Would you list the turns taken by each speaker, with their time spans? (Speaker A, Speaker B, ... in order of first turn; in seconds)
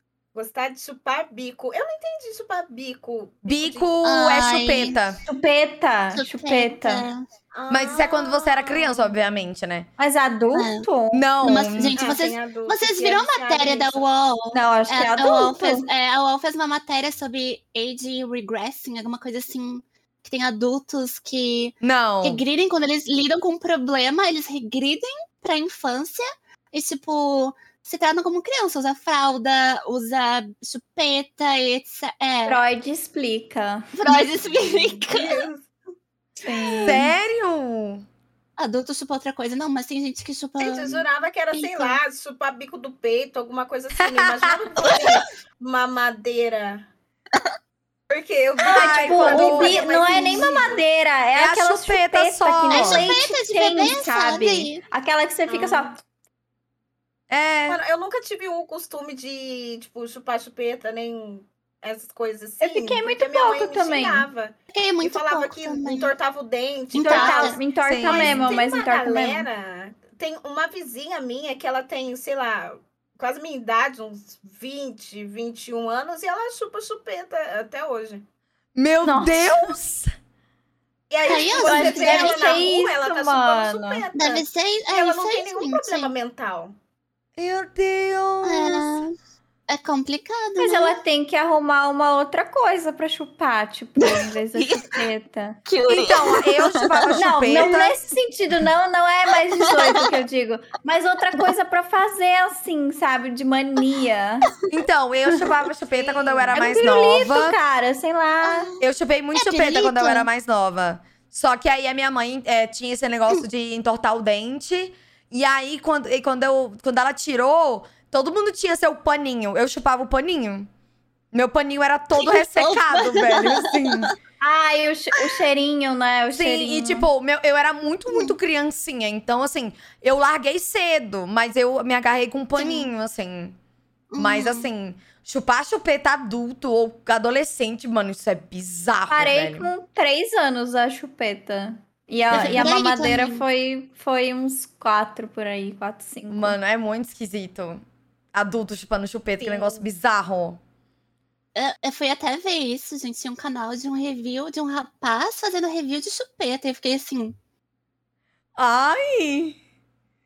Speaker A: 0.3-3.9, 7.5-9.2, 12.0-14.1, 34.1-35.6, 40.6-46.9, 48.1-50.8, 55.5-55.9, 57.7-78.2, 81.1-86.8, 105.9-106.8, 149.4-149.9
Speaker B: 3.4-5.2, 7.7-9.9, 11.1-12.0, 21.8-22.4, 36.8-38.0, 44.0-44.8, 48.7-49.8, 51.4-53.1, 57.3-57.8, 67.8-68.5, 78.7-80.1, 87.4-89.0, 95.9-98.0, 104.7-107.5, 108.8-120.7, 121.3-124.1, 126.3-133.6, 134.2-139.7, 142.3-142.7, 146.3-147.8, 148.3-150.6, 158.6-159.6
Speaker C: 4.0-5.0, 6.1-7.2, 10.5-10.9, 11.4-32.6, 34.0-35.4, 38.6-42.0, 44.8-45.2, 52.7-54.8, 64.7-66.1, 66.9-67.6, 81.2-82.6, 84.1-86.1, 88.4-89.1, 89.7-91.0, 94.0-95.0, 95.7-97.7, 99.5-100.0, 105.3-105.6, 108.4-108.8, 109.3-110.3, 122.1-124.1, 128.1-128.3, 132.6-132.9, 134.1-134.7, 142.3-143.4, 151.5-157.3
Speaker D: 5.2-7.0, 10.0-11.2, 14.5-15.9, 32.5-33.9, 36.4-37.1, 48.7-56.0, 62.6-64.3, 67.0-69.5, 79.0-79.8, 81.6-84.0, 90.6-95.6, 97.1-104.5, 106.5-108.7, 124.4-127.1, 139.1-146.6